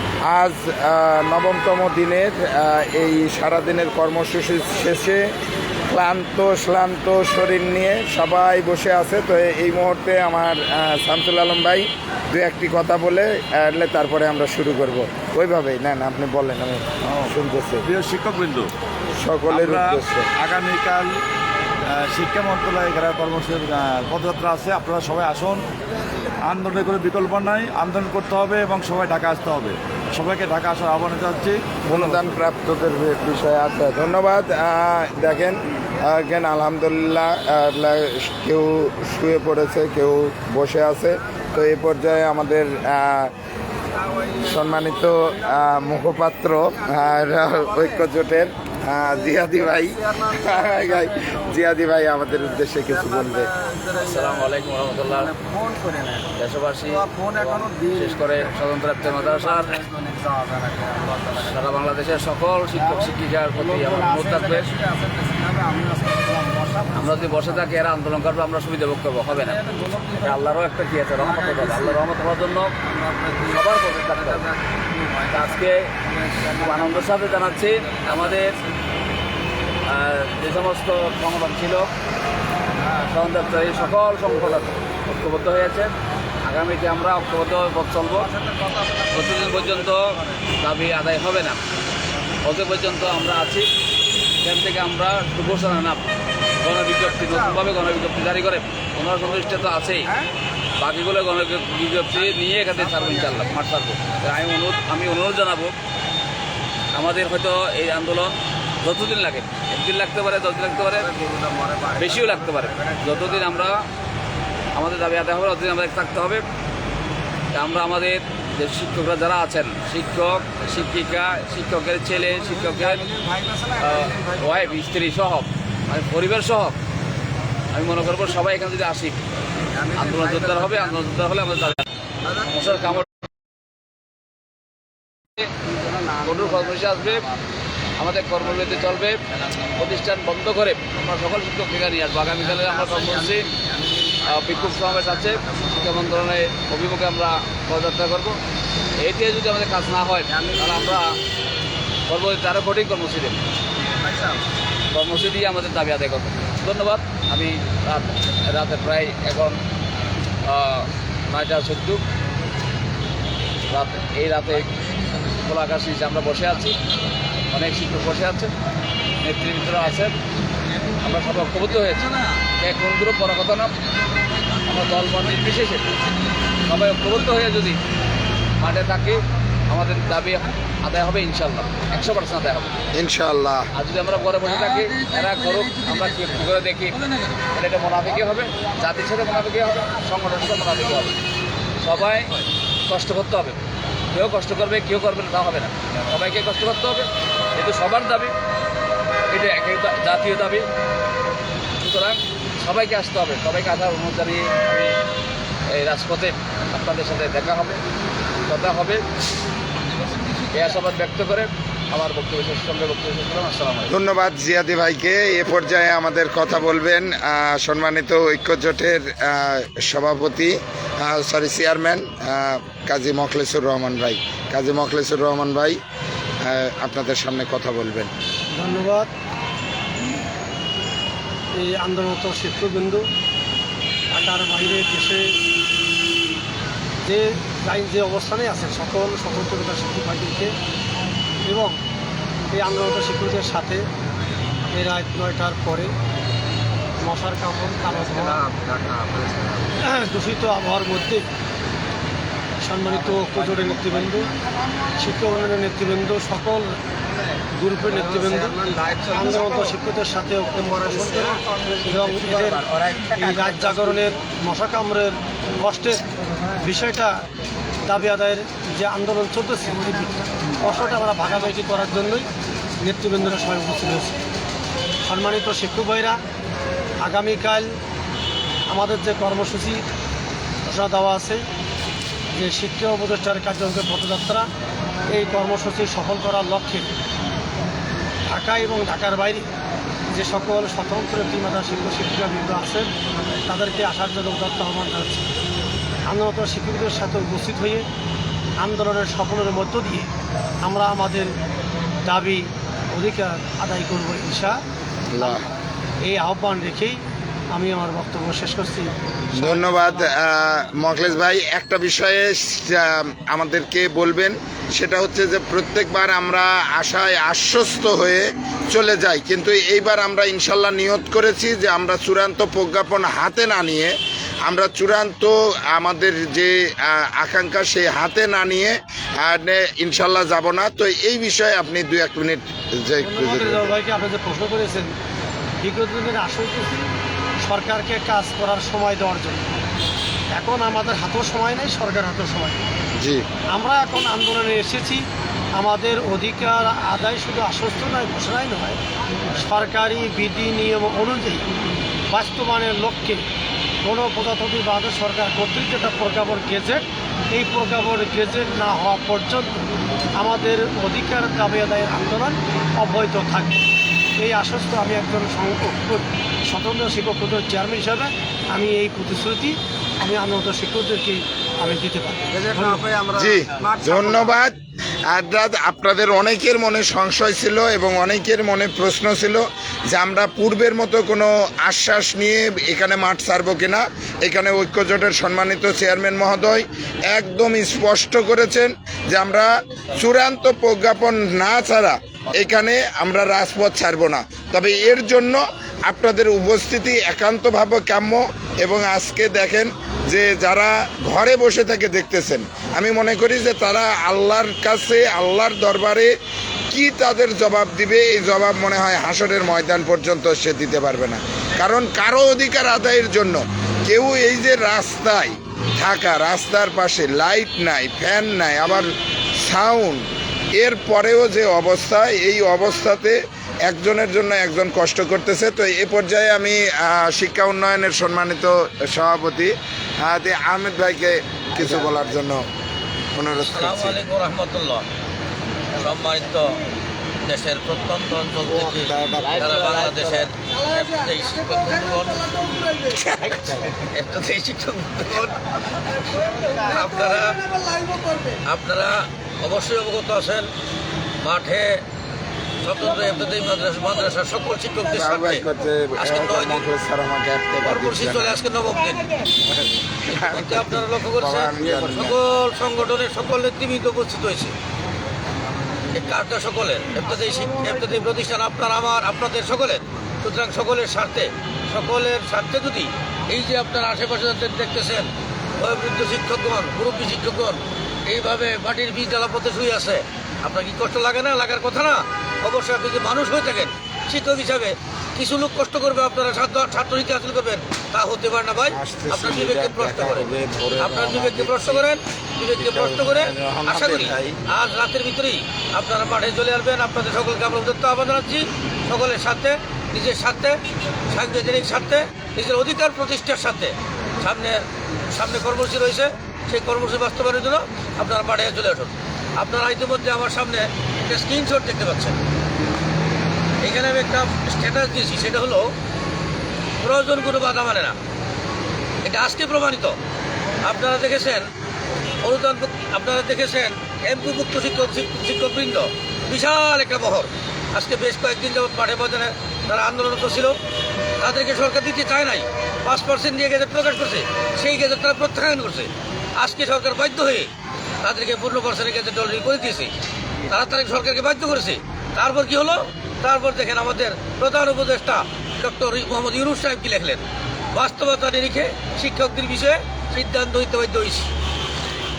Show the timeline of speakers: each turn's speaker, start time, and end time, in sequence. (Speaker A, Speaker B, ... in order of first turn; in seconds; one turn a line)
Speaker A: 0.3-5.3
Speaker A: 5.9-17.9
Speaker B: 17.1-17.3
Speaker B: 17.9-18.7
Speaker A: 19.1-20.3
Speaker B: 19.5-21.1
Speaker B: 21.9-25.6
Speaker B: 26.4-32.4
Speaker A: 31.9-43.3
Speaker A: 44.4-53.5
Speaker C: 53.8-55.5
Speaker B: 55.8-56.1
Speaker C: 56.4-60.0
Speaker B: 60.8-61.1
Speaker C: 61.3-64.7
Speaker B: 65.0-66.8
Speaker C: 66.8-72.7
Speaker C: 73.4-74.5
Speaker C: 75.2-75.9
Speaker C: 76.4-78.6
Speaker C: 79.9-81.9
Speaker C: 83.0-85.9
Speaker C: 86.4-88.3
Speaker C: 89.0-91.6
Speaker C: 92.4-93.7
Speaker C: 94.4-96.0
Speaker C: 96.6-100.2
Speaker C: 100.8-105.7
Speaker C: 106.9-111.1
Speaker B: 111.3-112.0
Speaker C: 111.9-113.8
Speaker C: 114.7-116.4
Speaker C: 117.5-123.2
Speaker C: 123.7-126.8
Speaker C: 127.7-129.2
Speaker C: 129.8-131.8
Speaker C: 132.4-133.1
Speaker C: 136.0-137.3
Speaker C: 138.0-139.2
Speaker C: 139.8-143.5
Speaker C: 144.2-148.4
Speaker C: 149.0-151.2
Speaker C: 152.1-153.4
Speaker C: 154.9-159.6
Speaker C: 160.4-162.0
Speaker C: 163.7-164.7
Speaker C: 165.2-166.8
Speaker C: 167.5-168.5
Speaker C: 169.2-170.1
Speaker C: 171.0-173.7
Speaker C: 174.6-175.9
Speaker C: 176.7-177.8
Speaker C: 178.6-182.8
Speaker A: 182.9-183.7
Speaker C: 183.8-191.1
Speaker C: 191.8-192.3
Speaker C: 192.9-193.6
Speaker C: 194.1-198.3
Speaker C: 199.3-200.7
Speaker C: 201.8-204.9
Speaker C: 205.7-207.8
Speaker C: 208.5-209.0
Speaker C: 210.5-213.9
Speaker A: 213.9-225.8
Speaker A: 226.4-228.1
Speaker D: 228.5-229.1
Speaker D: 231.5-233.0
Speaker D: 234.1-235.3
Speaker D: 237.0-240.5
Speaker D: 241.4-241.8
Speaker D: 242.5-243.8
Speaker D: 244.7-245.9
Speaker D: 247.0-248.4
Speaker B: 248.5-249.3
Speaker D: 249.8-251.2
Speaker D: 252.6-254.3
Speaker D: 255.0-256.7
Speaker D: 257.6-266.0
Speaker D: 266.6-267.1
Speaker D: 267.8-272.3
Speaker D: 272.8-274.2
Speaker D: 275.0-276.2
Speaker D: 277.0-277.7
Speaker D: 278.7-279.8
Speaker D: 280.6-281.4
Speaker D: 282.3-284.5
Speaker D: 285.1-286.9
Speaker D: 288.3-289.5
Speaker D: 290.1-292.9
Speaker D: 293.5-295.3
Speaker D: 296.1-297.8
Speaker D: 298.6-300.1
Speaker D: 300.6-301.3
Speaker D: 302.0-304.6
Speaker A: 305.1-305.4
Speaker D: 306.0-307.0
Speaker D: 307.5-310.1
Speaker A: 309.4-323.9
Speaker A: 324.4-333.7
Speaker D: 333.0-334.9
Speaker D: 335.6-336.9
Speaker D: 337.4-339.6
Speaker D: 340.3-342.6
Speaker A: 343.0-343.2
Speaker D: 343.5-351.4
Speaker D: 352.1-353.2
Speaker D: 353.8-359.5
Speaker D: 360.2-363.6
Speaker D: 364.2-373.0
Speaker A: 373.1-374.6
Speaker A: 375.1-406.1
Speaker A: 406.7-418.9
Speaker A: 419.4-420.0
Speaker A: 420.6-432.4
Speaker A: 433.1-434.0
Speaker E: 433.4-434.8
Speaker E: 435.8-436.6
Speaker E: 437.2-445.5
Speaker A: 438.6-439.7
Speaker C: 439.2-440.2
Speaker E: 446.2-447.4
Speaker E: 448.4-450.5
Speaker E: 451.2-451.8
Speaker E: 452.6-455.4
Speaker A: 454.9-458.4
Speaker E: 456.0-456.6
Speaker E: 457.6-459.1
Speaker A: 459.4-462.2
Speaker E: 460.1-464.5
Speaker E: 465.9-500.6
Speaker A: 488.7-491.9
Speaker A: 492.5-494.4
Speaker E: 501.1-512.2
Speaker E: 513.6-515.7
Speaker E: 516.8-518.0
Speaker E: 519.0-520.0
Speaker E: 520.6-521.5
Speaker E: 522.2-530.5
Speaker E: 531.2-537.5
Speaker E: 538.0-539.9
Speaker E: 540.5-551.3